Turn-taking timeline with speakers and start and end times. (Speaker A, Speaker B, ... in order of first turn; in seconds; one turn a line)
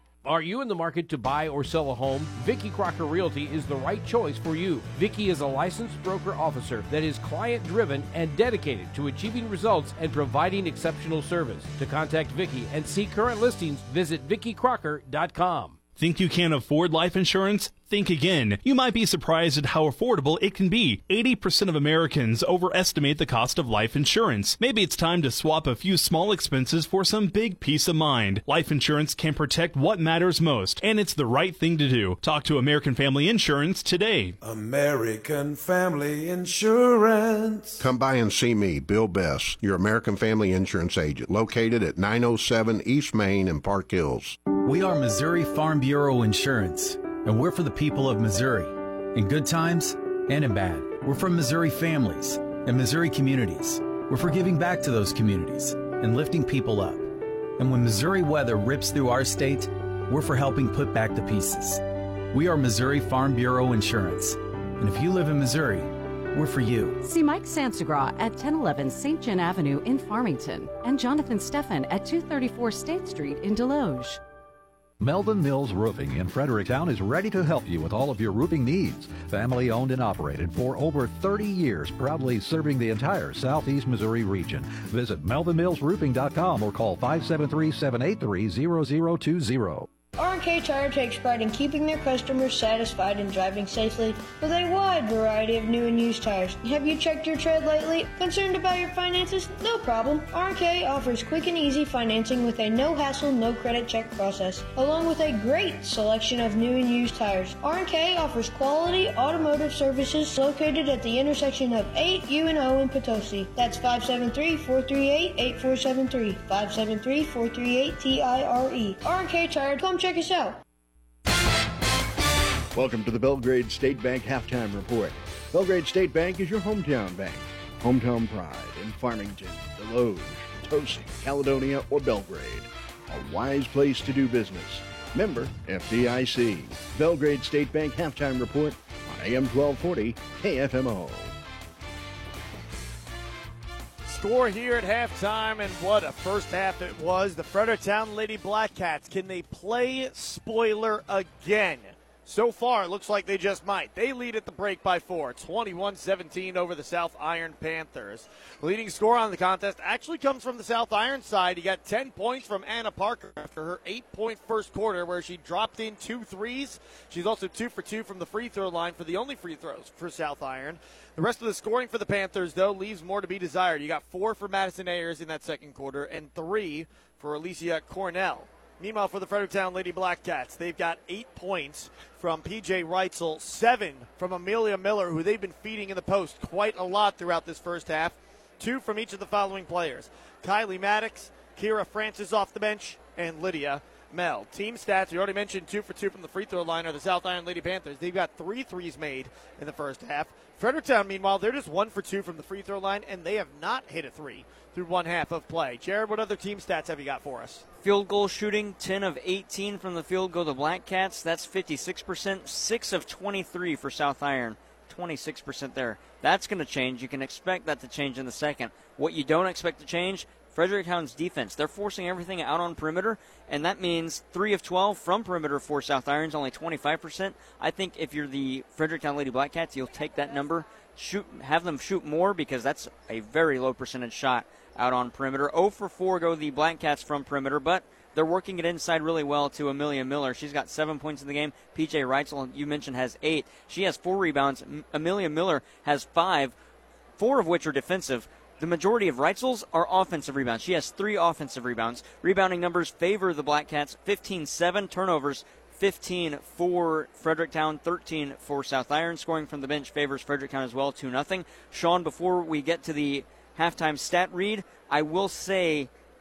Speaker A: 0.2-15.8
Speaker B: 16.0-34.4
Speaker C: 34.4-37.8
Speaker D: 37.8-44.4
Speaker E: 44.5-67.0
Speaker F: 67.0-74.2
Speaker G: 75.0-89.9
Speaker H: 90.2-120.6
Speaker I: 122.7-141.3
Speaker J: 144.1-207.7
Speaker K: 207.8-246.6
Speaker K: 247.2-265.9